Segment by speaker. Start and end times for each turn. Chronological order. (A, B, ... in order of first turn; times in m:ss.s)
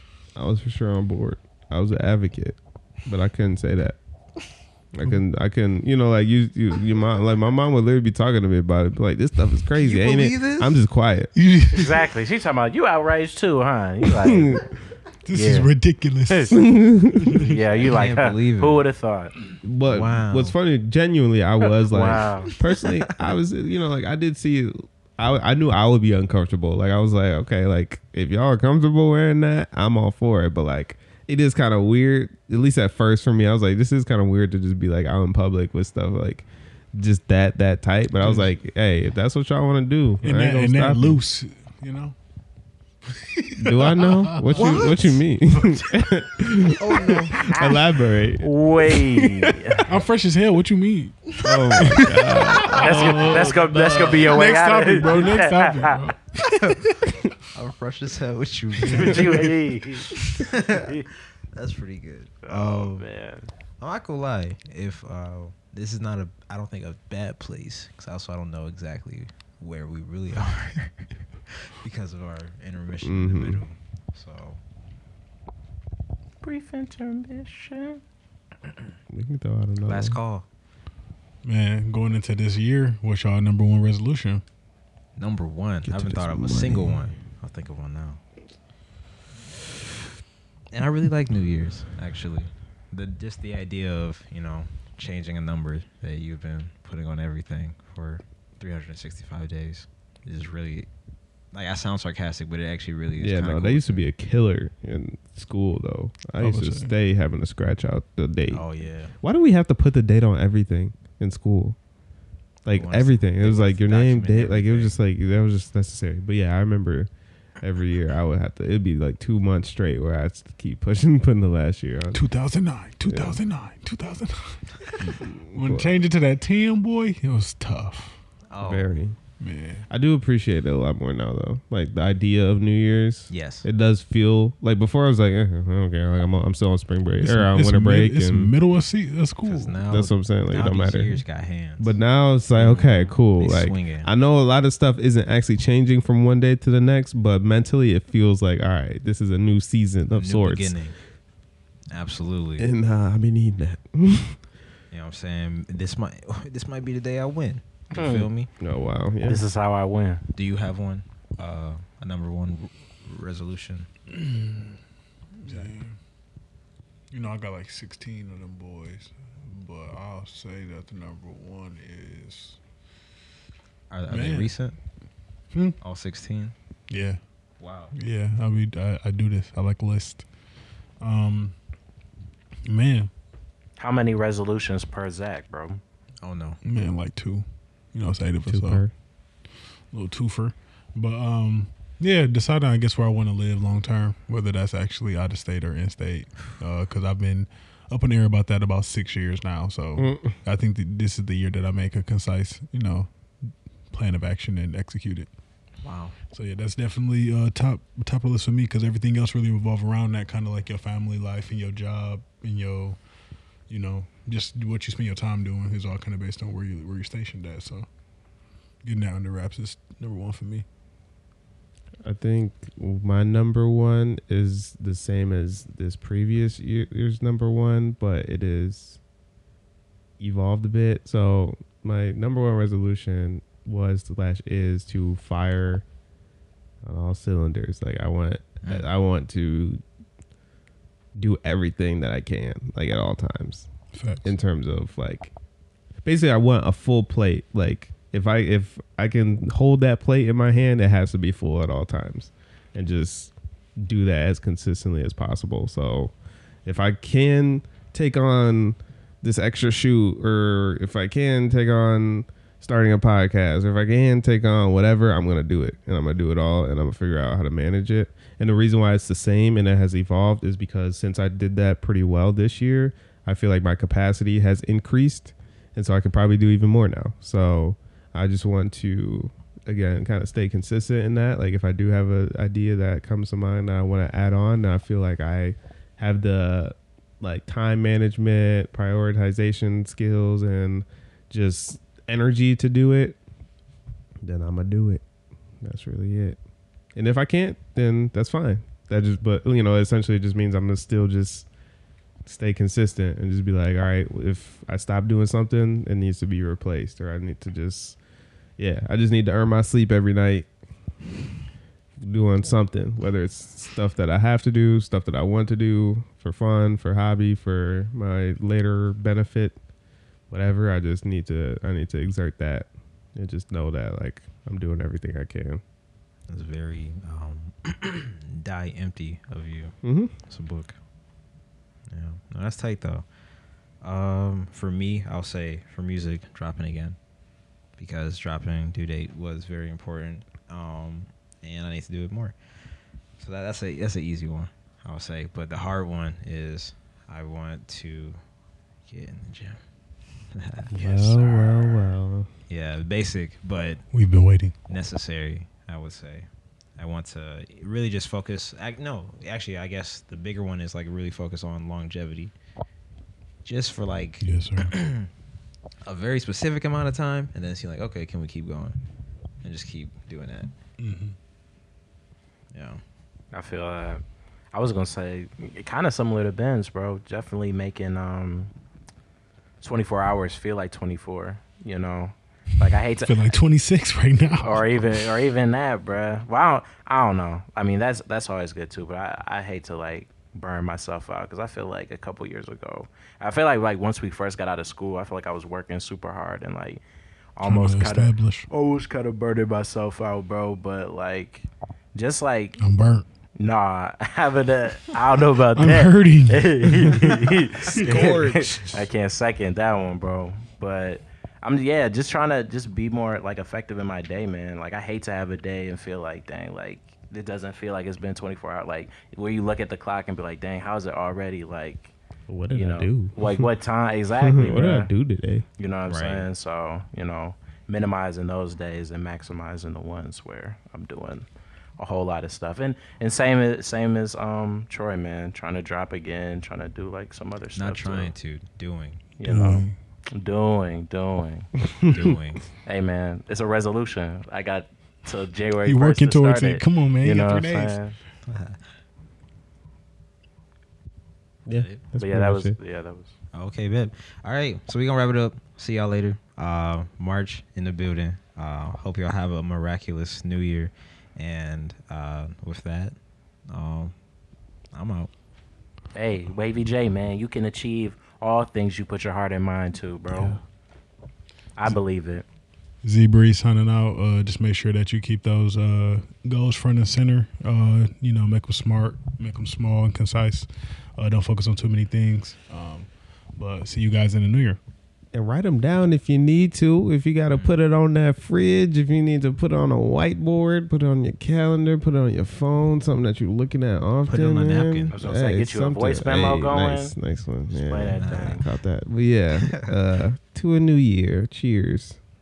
0:00.4-0:04.0 A
0:04.9-0:11.3 A
0:09.8-0:10.8 B
0:11.4-0:12.0 C
0:11.7-0:14.6 D
0:14.2-0:14.6 A
0:15.2-0:16.6 C
0:15.3-0:15.7 D
0:16.3-0:16.6 D
0:16.5-0:17.5 A
0:17.3-0:19.3 D
0:17.5-0:18.8 B
0:19.6-0:41.2 A
0:19.8-0:20.5 B
0:21.9-0:22.5 D
0:22.5-0:23.2 B
0:38.2-0:38.5 C
0:40.2-0:42.1 C
0:43.1-0:44.9 C
0:43.6-0:50.0 A
0:44.4-0:45.2 B
0:46.8-0:47.6 B
0:48.4-0:49.8 D
0:49.8-0:57.0 C
0:51.4-0:54.6 A
0:52.7-0:56.1 D
0:56.4-0:57.0 B
0:57.5-0:59.6 B
0:58.9-1:01.0 D
1:00.1-1:03.0 B
1:02.4-1:03.5 D
1:03.8-1:14.6 B
1:13.0-1:13.6 A
1:16.4-1:18.0 D
1:19.1-1:20.2 A
1:19.8-1:20.4 B
1:21.4-1:24.4 C
1:25.2-1:28.2 B
1:25.8-1:27.1 A
1:30.7-1:40.9 B
1:41.5-1:44.0 B
1:43.2-1:48.6 A
1:46.4-1:46.9 C
1:48.5-1:49.1 B
1:49.2-1:51.8 A
1:52.6-1:57.1 A
1:52.7-1:54.9 B
1:57.6-2:02.2 A
2:02.1-2:08.2 C
2:03.0-2:03.4 A
2:05.1-2:05.9 A
2:08.5-2:08.9 B
2:08.6-2:09.2 A
2:09.4-2:09.8 C
2:09.9-2:18.5 A
2:13.3-2:13.6 B
2:17.2-2:19.8 C
2:19.4-2:22.0 B
2:19.9-2:21.2 A
2:21.8-2:30.7 A
2:22.6-2:23.1 D
2:23.3-2:24.1 B
2:30.1-2:30.9 B
2:31.9-2:32.7 B
2:32.6-2:34.4 A
2:34.9-2:38.5 B
2:37.9-2:38.3 D
2:38.6-2:39.4 A
2:39.2-2:40.2 D
2:40.3-2:43.9 B
2:44.1-2:44.7 C
2:45.4-2:46.0 C
2:47.1-2:52.6 C
2:53.9-2:54.8 B
2:54.1-2:54.5 C
2:55.5-2:55.8 C
2:55.8-2:56.5 B
2:56.9-2:57.2 C
2:57.6-2:57.9 B
2:57.9-3:00.2 C
3:01.0-3:01.5 C
3:02.6-3:03.1 C
3:03.8-3:05.8 D
3:06.2-3:06.6 B
3:06.6-3:08.8 C
3:08.4-3:08.9 A
3:09.9-3:23.1 C
3:20.0-3:20.3 A
3:23.9-3:25.3 C
3:25.8-3:26.2 B
3:26.3-3:33.0 C
3:33.7-3:37.8 C
3:38.8-3:40.6 C
3:42.0-3:49.0 A
3:50.2-3:55.8 A
3:56.8-3:59.8 A
3:58.6-3:58.9 B
4:01.2-4:03.7 A
4:03.9-4:04.3 C
4:04.2-4:05.3 A
4:06.0-4:16.1 A
4:16.6-4:53.2 A
4:54.2-4:55.0 A
4:55.6-4:56.4 A
4:56.9-5:01.5 A
5:02.2-5:08.0 A
5:08.6-5:10.5 A
5:12.0-5:19.5 A
5:20.3-5:25.6 A
5:26.3-5:29.8 B
5:29.8-5:30.1 A
5:30.3-5:30.7 B
5:31.9-5:33.0 B
5:33.8-5:37.0 B
5:37.8-5:42.3 B
5:43.2-5:48.2 B
5:48.9-5:49.6 B
5:50.3-5:51.9 B
5:50.7-5:52.3 A
5:52.5-5:53.8 B
5:53.9-5:54.5 C
5:54.7-5:56.3 B
5:56.8-6:02.3 B
6:03.4-6:05.1 B
6:04.2-6:04.7 C
6:05.8-6:08.8 B
6:09.4-6:10.5 B
6:10.8-6:11.2 C
6:12.5-6:12.8 B
6:13.3-6:14.0 D
6:14.5-6:18.5 D
6:19.6-6:23.4 D
6:23.0-6:25.0 C
6:24.4-6:36.8 D
6:37.4-6:42.6 D
6:37.4-6:38.5 C
6:42.6-6:43.0 C
6:43.4-7:01.9 D
6:45.6-6:48.2 C
6:47.6-6:48.8 B
7:02.3-7:03.5 A
7:02.5-7:04.9 D
7:04.2-7:05.4 A
7:05.6-7:11.3 D
7:05.9-7:06.3 B
7:11.8-7:18.1 D
7:17.6-7:19.0 B
7:19.2-7:21.5 D
7:19.2-7:19.7 C
7:21.6-7:22.2 A
7:21.9-7:22.4 B
7:22.6-7:28.0 D
7:25.6-7:27.8 C
7:28.2-7:28.6 B
7:31.4-7:32.6 A
7:31.5-7:31.8 B
7:32.0-7:33.1 D
7:33.3-7:43.0 B
7:43.5-7:43.9 B
7:44.7-7:45.1 B
7:45.9-7:50.4 D
7:50.1-7:50.4 C
7:51.6-7:52.2 D
7:52.8-8:04.6 C
8:05.1-8:22.0 A
8:07.3-8:07.6 B
8:14.1-8:14.9 B
8:14.9-8:16.9 D
8:17.5-8:18.4 D
8:18.0-8:18.4 B
8:19.3-8:19.7 B